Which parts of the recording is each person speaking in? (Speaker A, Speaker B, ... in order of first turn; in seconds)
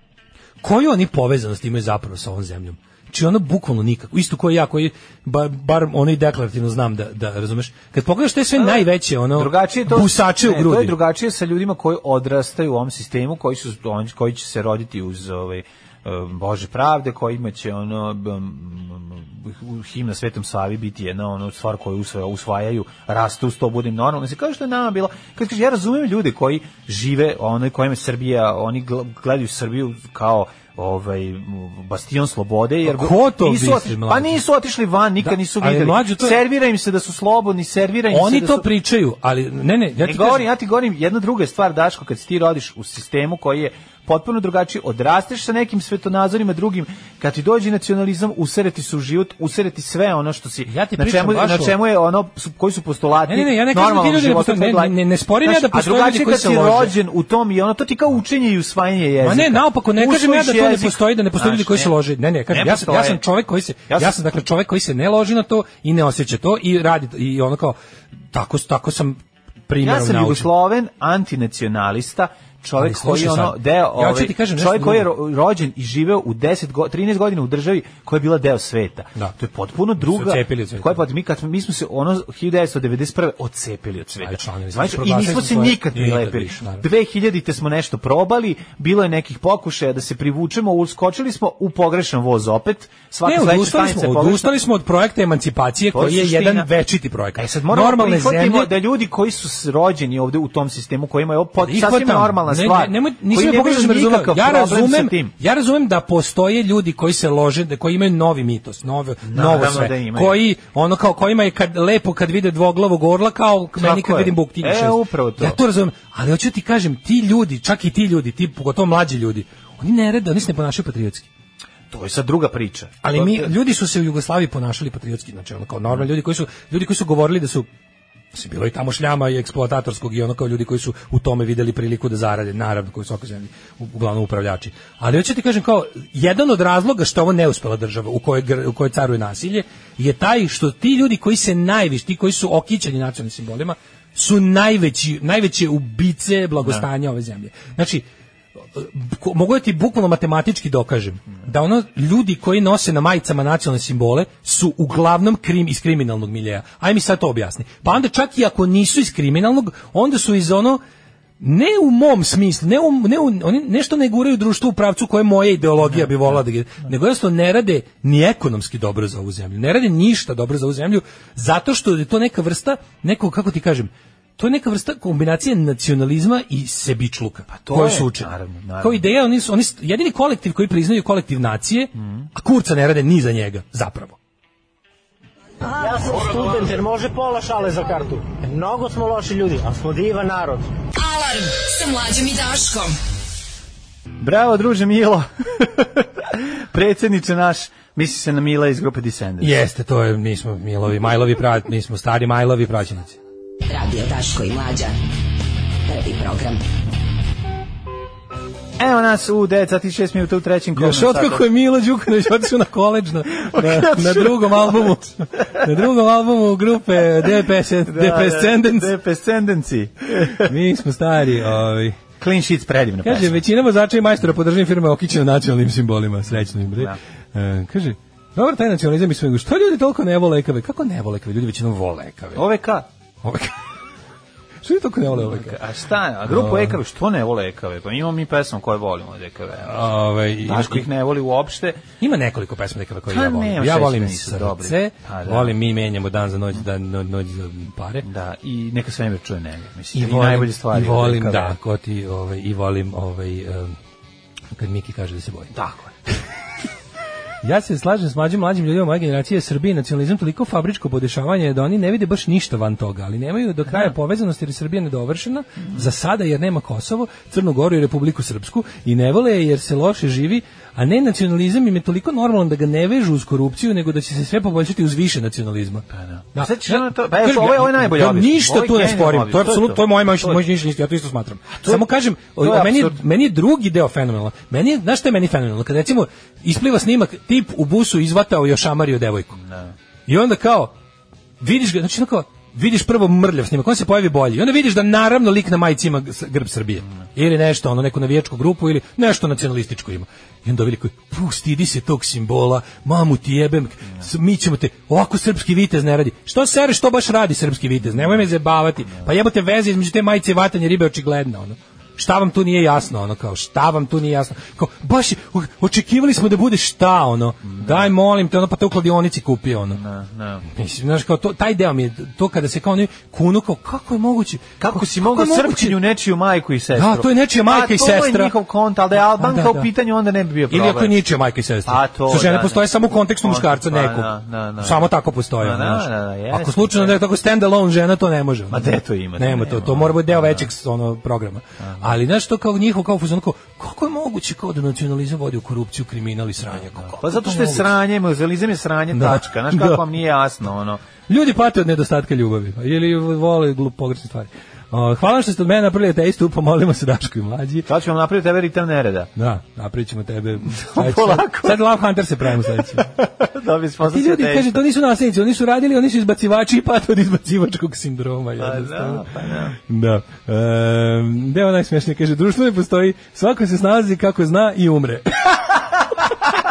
Speaker A: 0.6-11.0, 32.8-34.4, 35.2-36.4, 38.1-40.5, 50.7-51.8, 53.3-56.9, 59.2-67.8, 68.3-70.5, 72.8-75.1, 80.0-81.0, 84.2-86.8, 93.2-98.7, 101.6-121.3, 123.0-127.7, 128.3-148.1, 148.7-160.8, 161.4-184.2, 199.4-203.2, 210.7-218.9, 220.2-222.0, 223.0-232.4, 233.2-233.6, 234.6-235.6, 236.2-236.8, 239.6-240.9, 242.0-248.1, 249.9-253.8, 254.5-255.5, 257.4-289.4, 290.1-290.7, 291.4-319.8, 320.5-325.8, 326.7-328.3, 328.9-329.7, 330.5-347.7, 348.9-349.8, 351.1-357.7, 359.1-362.9, 363.8-375.6
Speaker B: 8.6-38.6, 40.0-61.9, 62.5-63.2, 63.9-64.2, 69.8-94.5, 95.9-96.7, 97.3-105.3, 109.2-110.4, 113.8-115.6, 121.9-123.5, 177.5-179.0, 182.0-182.3, 194.2-199.6, 208.8-211.4, 213.3-214.9, 217.8-220.5, 222.2-223.4, 226.6-227.0, 232.3-232.8, 235.1-239.8, 240.4-241.8, 243.1-245.5, 248.0-251.6, 255.5-255.9, 275.9-280.4, 281.6-281.9, 282.4-283.0, 289.4-289.7, 317.4-317.9, 319.7-320.4, 324.6-330.9, 331.6-332.6, 333.2-334.9, 335.4-337.0, 338.5-340.5, 341.6-341.9, 346.8-350.8, 357.6-359.1, 360.5-361.6, 362.5-364.6, 368.4-369.6
Speaker C: 185.6-190.7
Speaker D: 190.9-193.0, 203.7-204.9, 205.8-206.6